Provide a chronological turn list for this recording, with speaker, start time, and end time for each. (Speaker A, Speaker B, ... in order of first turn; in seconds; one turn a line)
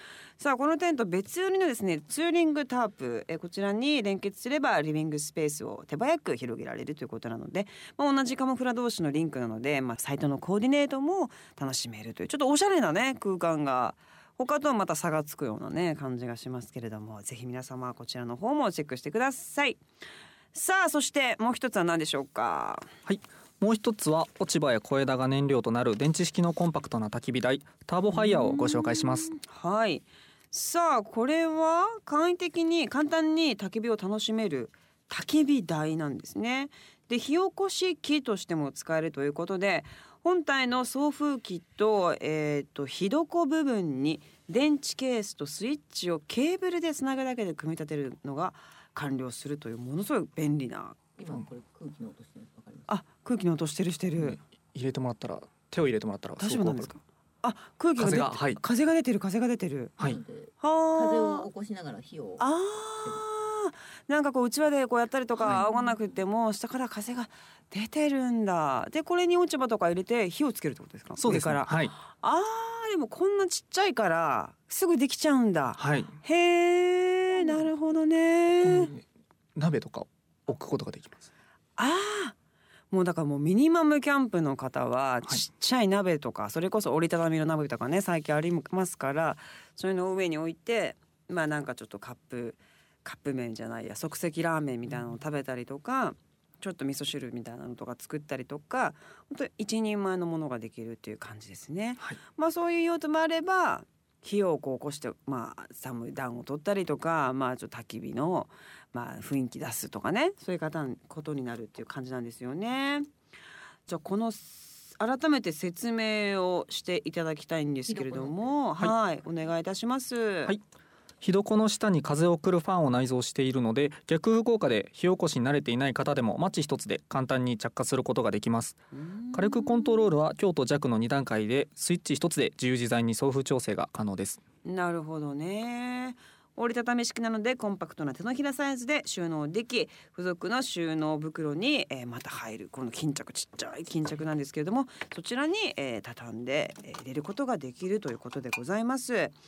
Speaker A: 0.4-19.8
Speaker A: 20.5-22.9
Speaker B: 23.1-29.3
Speaker A: 28.1-51.0
Speaker C: 51.2-52.9
Speaker A: 52.9-54.4
Speaker B: 54.2-56.9
Speaker A: 56.4-59.9
Speaker B: 58.0-58.6
Speaker C: 60.0-62.5
Speaker A: 60.6-61.5
Speaker A: 62.4-78.9
Speaker B: 71.2-71.9
Speaker B: 75.8-76.1
Speaker B: 78.6-79.0
Speaker B: 79.5-81.2
Speaker A: 81.8-82.3
Speaker A: 82.9-113.1
Speaker A: 113.9-120.5
Speaker C: 117.9-118.5
Speaker B: 121.2-128.8
Speaker A: 128.9-130.1
Speaker B: 129.3-134.4
Speaker A: 134.6-149.3